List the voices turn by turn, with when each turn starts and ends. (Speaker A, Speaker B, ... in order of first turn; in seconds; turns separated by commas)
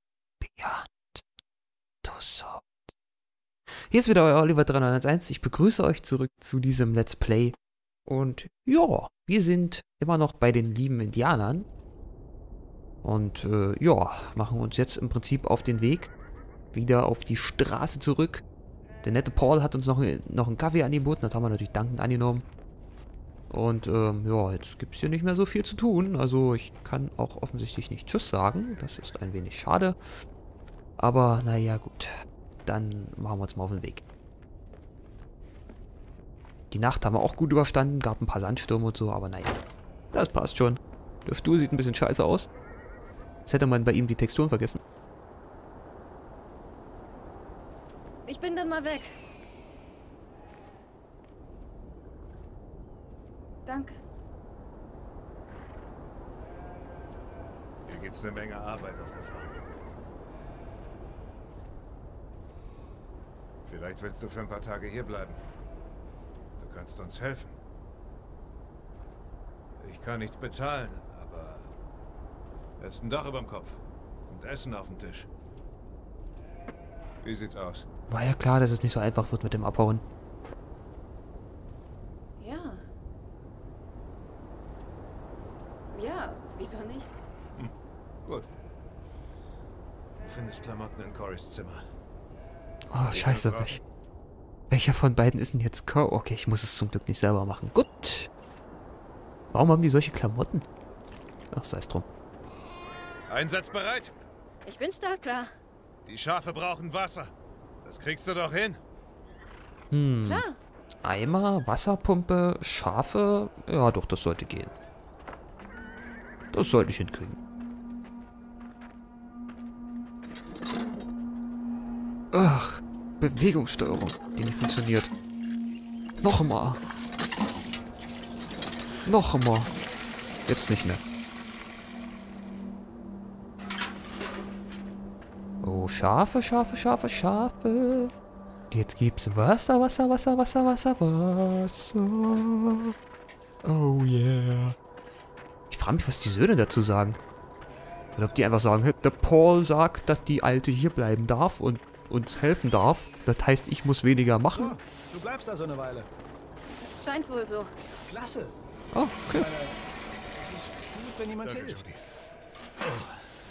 Speaker A: 0.4-1.2, Speaker A: 2.0-2.8, Speaker A: 3.7-11.7, Speaker A: 13.0-16.1, Speaker A: 16.7-18.4, Speaker A: 19.0-22.4, Speaker A: 23.5-30.0, Speaker A: 31.0-32.1, Speaker A: 32.6-34.0, Speaker A: 36.7-39.6, Speaker A: 40.1-42.5, Speaker A: 43.5-44.8, Speaker B: 48.3-49.2, Speaker B: 53.7-54.0, Speaker C: 57.9-59.5, Speaker C: 63.6-65.4, Speaker C: 66.6-67.5, Speaker C: 69.8-71.7, Speaker C: 72.8-75.3, Speaker C: 77.2-77.8, Speaker A: 78.1-80.0, Speaker B: 82.4-82.9, Speaker B: 85.9-87.1, Speaker C: 90.2-91.9, Speaker A: 92.9-93.8, Speaker C: 93.1-93.8, Speaker A: 94.7-98.3, Speaker A: 99.5-100.7, Speaker A: 101.5-102.1, Speaker C: 103.3-104.1, Speaker B: 104.6-105.5, Speaker C: 106.0-107.3, Speaker C: 107.8-108.8, Speaker A: 109.9-110.4, Speaker B: 110.2-110.6, Speaker A: 111.0-114.7, Speaker A: 116.5-117.4, Speaker A: 122.3-125.1, Speaker A: 126.2-126.8, Speaker A: 129.1-129.7, Speaker A: 130.5-131.0, Speaker A: 135.6-138.1, Speaker A: 138.7-143.0, Speaker A: 143.6-144.8, Speaker A: 145.7-147.2, Speaker A: 148.2-154.8, Speaker D: 154.5-156.1, Speaker B: 156.8-157.7, Speaker D: 158.1-158.6, Speaker A: 158.9-159.5, Speaker D: 159.3-159.8, Speaker D: 160.3-161.8, Speaker C: 161.4-162.0, Speaker C: 162.8-163.3